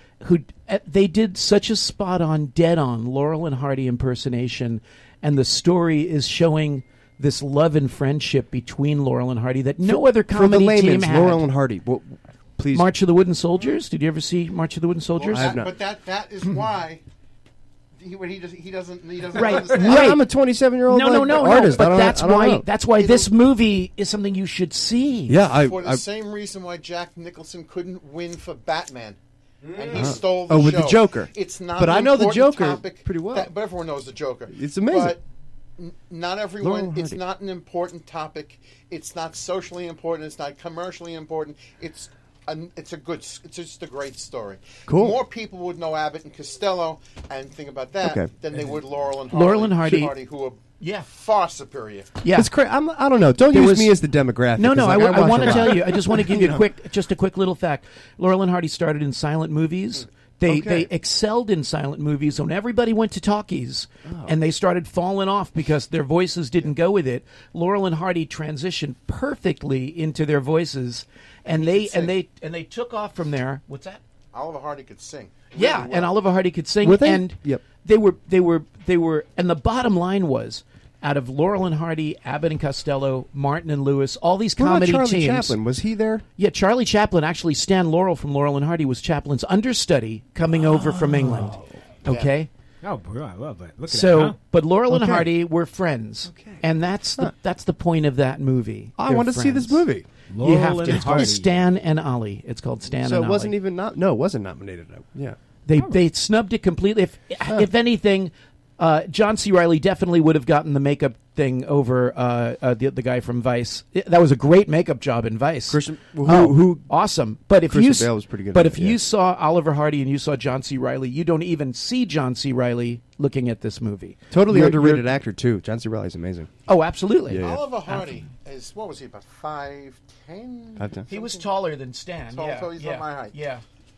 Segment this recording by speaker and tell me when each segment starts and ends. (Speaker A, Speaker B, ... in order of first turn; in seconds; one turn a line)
Speaker A: 0.2-11.5
Speaker B: 9.8-12.9
Speaker A: 12.7-15.6
Speaker C: 15.2-17.0
Speaker B: 15.3-15.7
Speaker C: 18.0-20.1
Speaker A: 19.3-20.2
Speaker B: 19.7-22.7
Speaker A: 20.9-25.4
Speaker C: 23.0-23.3
Speaker B: 25.3-26.0
Speaker C: 25.6-29.2
Speaker D: 29.6-30.2
Speaker C: 29.7-35.2
Speaker B: 29.9-33.5
Speaker B: 34.5-35.2
Speaker C: 35.8-52.1
Speaker B: 36.6-37.2
Speaker B: 44.9-45.2
Speaker B: 48.0-48.3
Speaker A: 49.3-50.1
Speaker A: 50.8-51.1
Speaker A: 52.2-52.5
Speaker B: 52.3-56.7
Speaker A: 53.5-54.0
Speaker A: 54.6-74.0
Speaker B: 60.5-60.9
Speaker B: 64.0-64.3
Speaker C: 71.5-72.1
Speaker C: 74.3-76.1
Speaker A: 75.5-85.6
Speaker B: 76.8-77.6
Speaker B: 84.6-86.2
Speaker A: 86.4-92.5
Speaker B: 90.5-91.8
Speaker C: 92.1-92.3
Speaker D: 92.8-94.4
Speaker A: 93.9-99.9
Speaker B: 94.9-95.3
Speaker B: 96.3-96.6
Speaker B: 99.0-100.1
Speaker D: 100.3-101.6
Speaker A: 100.4-103.5
Speaker B: 100.8-101.3
Speaker B: 102.9-105.4
Speaker A: 105.7-125.1
Speaker B: 115.7-116.9
Speaker B: 117.7-119.0
Speaker B: 124.3-126.5
Speaker A: 126.7-128.1
Speaker B: 127.3-127.7
Speaker C: 127.4-131.5
Speaker B: 130.8-131.1
Speaker A: 131.1-133.6
Speaker C: 132.3-133.4